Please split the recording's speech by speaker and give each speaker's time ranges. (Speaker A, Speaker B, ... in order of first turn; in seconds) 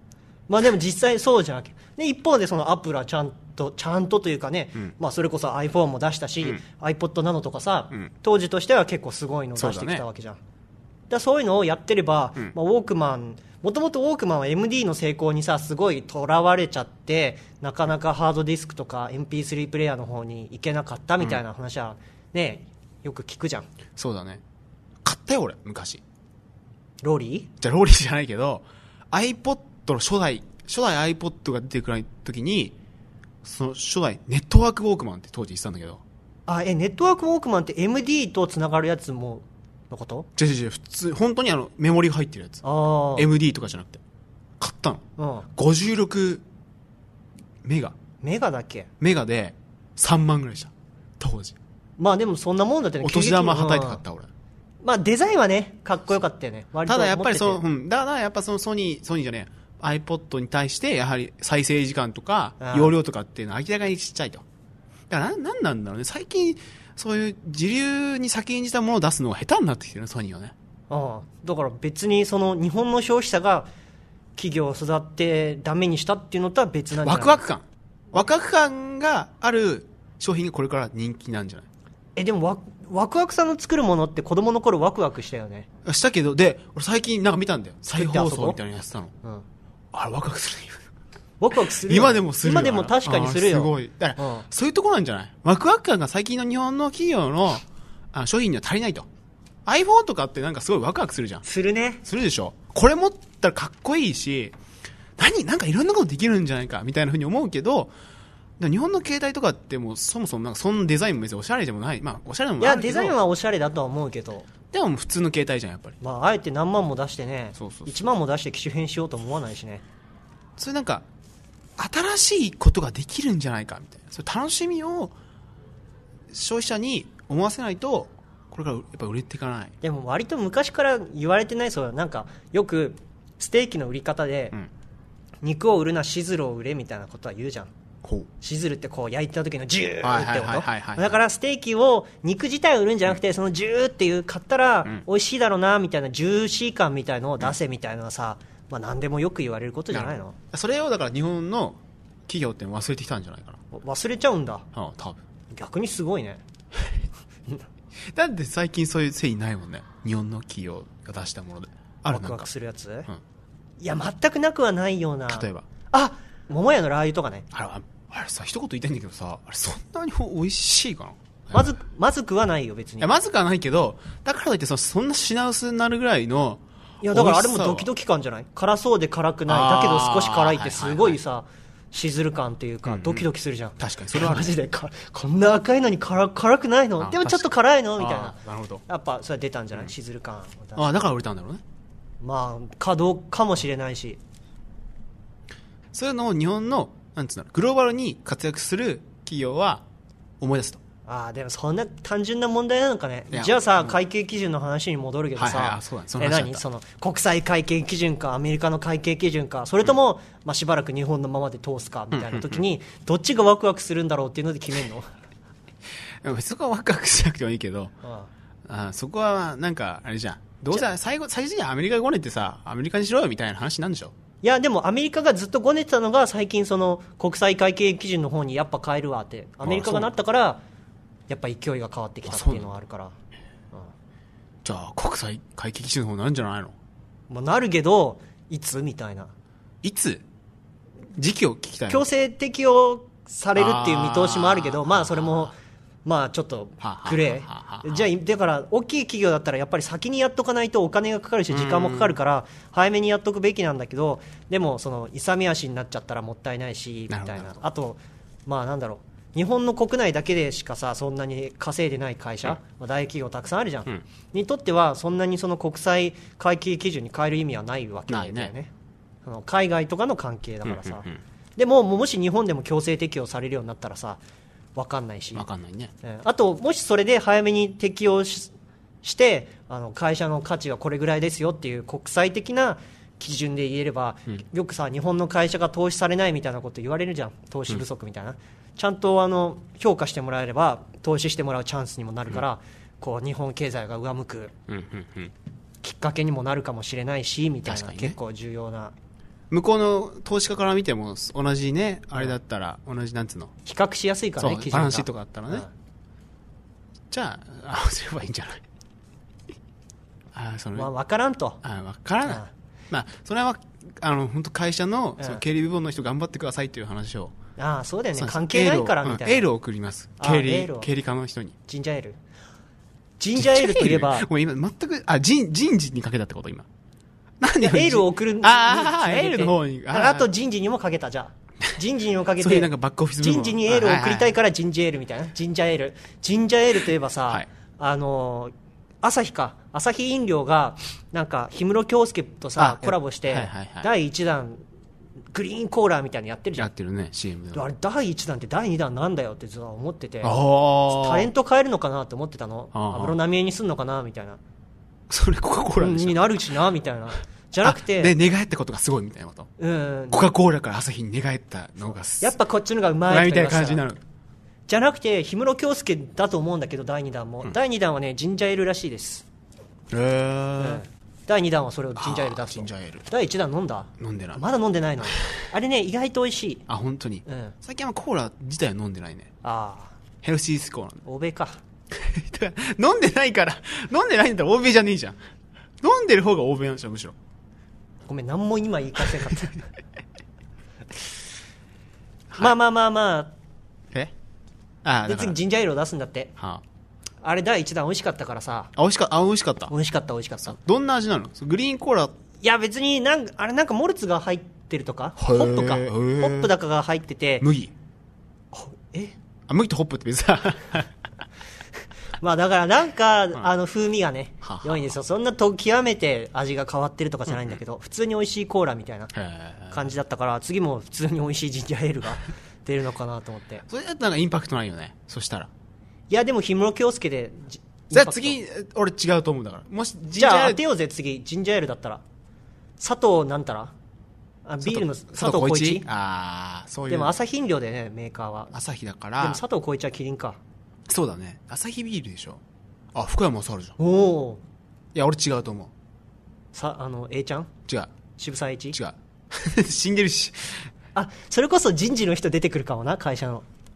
Speaker A: 0.5-10.4, 11.1-23.7, 27.0-27.5, 36.5-40.3, 42.6-43.3, 45.2-45.5, 48.2-48.9, 52.0-54.0, 54.8-57.6, 62.6-62.9, 70.9-73.7, 74.3-77.4, 82.2-85.7, 87.9-88.6, 91.4-94.5, 101.4-102.0, 112.6-114.5, 116.0-119.8, 129.8-134.5, 135.4-137.7, 138.4-150.3, 153.7-154.7, 155.5-156.4, 162.1-163.1, 163.8-167.5, 171.5-173.1, 177.0-190.9, 192.2-194.2, 201.1-215.1, 218.0-218.3, 224.4-230.6, 231.3-233.1, 237.3-239.3, 241.9-268.7, 269.2-274.2, 274.8-275.4, 276.0-294.5, 295.8-298.9, 303.6-305.7, 310.8-311.6, 317.6-319.5, 320.2-320.9, 321.7-322.2, 323.2-324.3, 327.6-344.6, 345.3-346.7, 347.5-354.4, 355.8-358.1, 359.6-360.2, 362.2-363.9, 364.7-369.2, 370.6-376.6, 377.2-377.5, 379.4-380.0, 381.0-381.6, 388.1-389.6, 392.4-393.3, 395.1-396.3, 397.2-398.7, 399.7-400.6, 402.4-407.4, 408.5-409.1, 412.2-419.1, 419.7-423.6, 426.1-428.4, 430.2-432.0, 432.8-433.7, 434.4-435.9, 436.9-438.5, 439.2-440.4, 443.8-444.4, 446.5-447.5, 448.2-448.8, 450.9-453.4
Speaker B: 9.6-10.0, 23.9-24.4, 25.0-26.0, 27.6-32.8, 33.4-36.0, 40.4-42.6, 43.1-44.0, 44.6-45.0, 45.5-46.4, 47.6-48.0, 49.0-51.6, 53.0-54.3, 56.9-64.4, 65.1-70.5, 77.0-81.7, 85.8-89.1, 89.9-90.9, 91.8-99.1, 99.7-101.4, 102.0-104.5, 105.2-107.9, 108.6-113.2, 114.7-116.0, 117.6-117.9, 120.6-121.0, 121.8-125.1, 126.3-129.7, 138.0-138.3, 140.0-141.2, 149.9-153.6, 154.7-155.2, 158.1-162.5, 165.3-165.7, 167.5-171.6, 173.0-177.9, 179.5-181.2, 182.8-183.2, 183.8-184.5, 187.0-187.4, 187.9-188.8, 190.8-191.6, 195.9-199.8, 200.4-200.8, 203.3-204.0, 205.3-206.6, 212.1-212.6, 216.2-217.9, 218.7-224.1, 229.6-230.1, 232.2-232.7, 234.6-236.7, 239.8-240.2, 241.1-242.1, 243.6-245.5, 246.8-248.1, 251.5-252.2, 257.1-257.6, 268.1-268.5, 270.6-271.2, 275.3-275.9, 294.7-295.3, 297.6-298.1, 299.5-303.5, 304.4-305.7, 307.1-308.6, 310.3-310.9, 311.6-317.3, 318.1-321.6, 323.4-326.7, 327.4-330.3, 332.4-334.3, 342.6-343.9, 346.6-347.6, 350.2-351.3, 352.7-353.1, 355.1-356.4, 357.6-359.5, 360.1-362.4, 363.1-364.0, 369.9-370.8, 371.9-373.1, 374.0-374.4, 376.7-379.3, 380.2-381.0, 381.9-385.2, 385.8-387.1, 394.8-395.4, 396.4-396.6, 398.8-399.7, 400.4-402.1, 405.2-406.5, 407.4-407.7, 409.5-410.9, 414.4-414.9, 419.1-419.9, 423.7-425.5, 427.9-430.6, 434.6-437.1, 438.5-439.4, 440.9-442.4, 442.9-443.8, 444.9-445.7, 448.7-450.7